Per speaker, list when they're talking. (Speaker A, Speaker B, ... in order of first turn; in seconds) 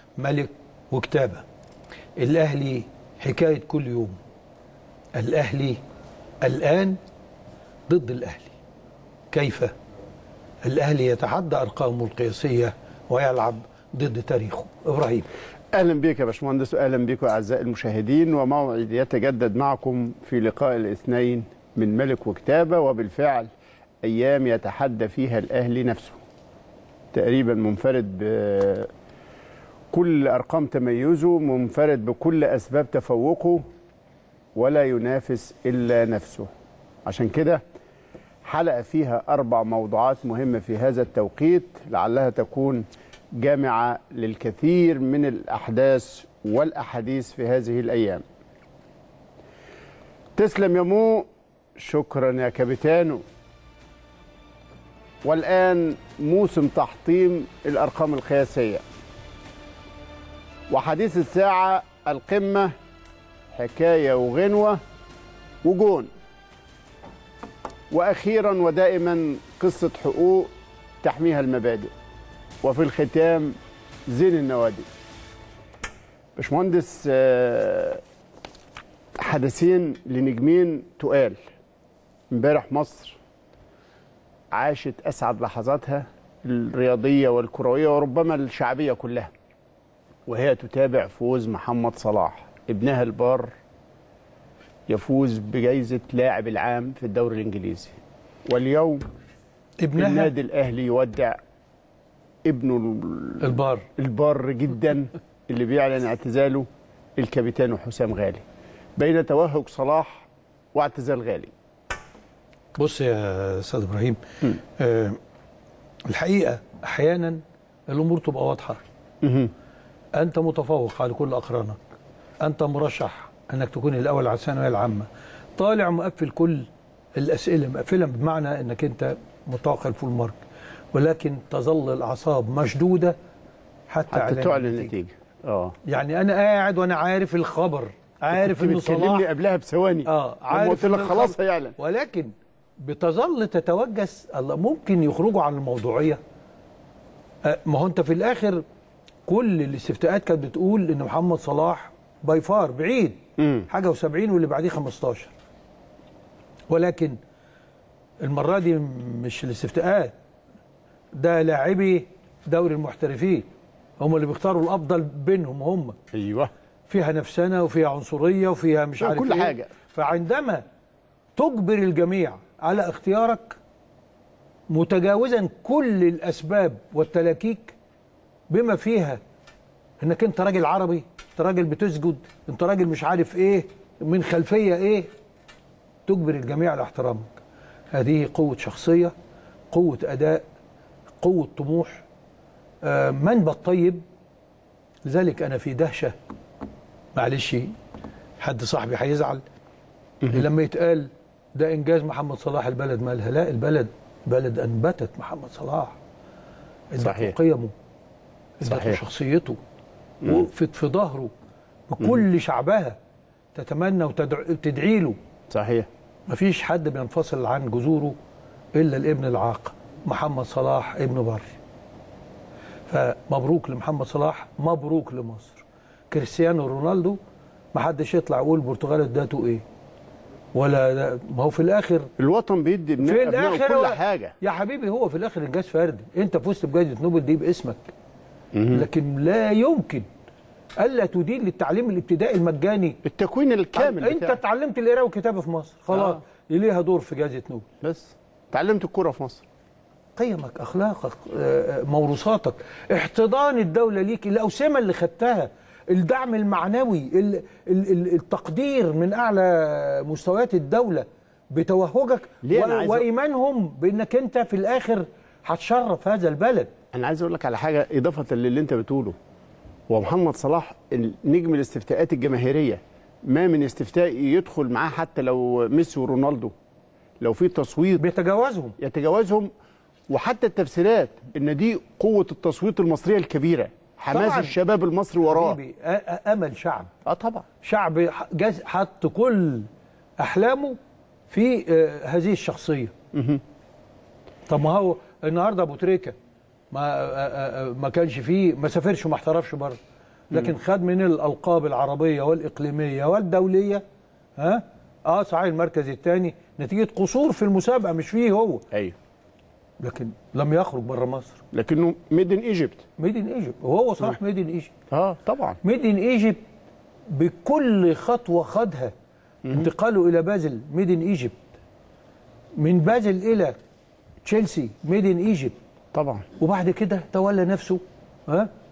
Speaker A: 0.2-1.4, 2.2-4.2, 5.2-5.8, 6.4-7.0, 7.9-8.5, 9.3-9.7, 10.6-15.3, 99.8-100.3, 103.4-103.9, 112.8-115.2, 116.1-118.8, 120.2-121.8, 122.4-130.4, 130.9-133.2, 133.9-134.9, 135.9-139.3, 140.1-146.2, 147.4-148.6, 149.3-155.3, 156.7-157.2, 158.2-160.1, 161.1-163.5, 164.0-166.0, 166.9-170.6, 171.4-173.6, 174.7-177.8, 178.5-179.2, 180.0-185.1, 186.1-187.4, 187.9-189.1, 189.7-190.4, 191.2-192.0, 192.8-194.0, 195.1-196.2, 197.2-197.7, 198.4-199.4, 200.3-206.0, 206.9-207.7, 208.6-209.6, 210.2-211.3, 211.9-212.9, 213.6-215.2, 216.3-218.2, 218.7-221.5, 222.9-227.2, 227.7-229.6, 230.5-232.1, 233.0-237.9, 238.7-240.1, 240.8-243.0, 243.8-247.7, 250.2-266.7, 278.0-278.8, 284.1-284.6, 285.2-286.9, 287.6-289.7, 290.2-290.8, 291.3-292.9, 294.5-296.1, 296.7-299.8, 300.3-303.8, 304.4-308.6, 309.8-311.4, 313.0-314.7, 315.6-316.4, 317.1-318.9, 319.5-321.4, 322.6-323.6, 324.2-325.6, 326.4-328.5
Speaker B: 15.7-23.5, 24.0-26.2, 27.1-28.9, 29.9-33.6, 34.5-36.5, 37.0-37.6, 38.4-48.2, 50.4-53.2, 55.2-58.8, 60.7-62.7, 63.5-64.8, 65.6-66.1, 67.9-70.5, 71.0-71.9, 72.6-73.5, 74.1-74.9, 76.4-78.0, 79.2-81.4, 82.3-83.2, 84.5-89.3, 90.3-93.5, 94.9-99.0, 100.0-101.4, 102.5-106.7, 107.2-108.4, 109.0-111.5, 119.2-119.5, 134.1-135.8, 138.3-141.8, 153.4-153.7, 166.1-166.5, 169.0-169.7, 200.2-200.5, 207.0-207.4, 208.6-209.0, 210.2-210.5, 215.5-215.9, 232.2-234.3, 238.5-238.9, 243.0-244.4, 245.9-246.2, 247.8-249.4, 262.4-263.1, 266.9-269.1, 269.9-276.5, 277.2-278.0, 278.8-279.5, 280.1-285.6, 287.1-287.4, 293.1-293.4, 311.5-312.8, 314.9-315.6, 319.4-319.7, 325.9-326.2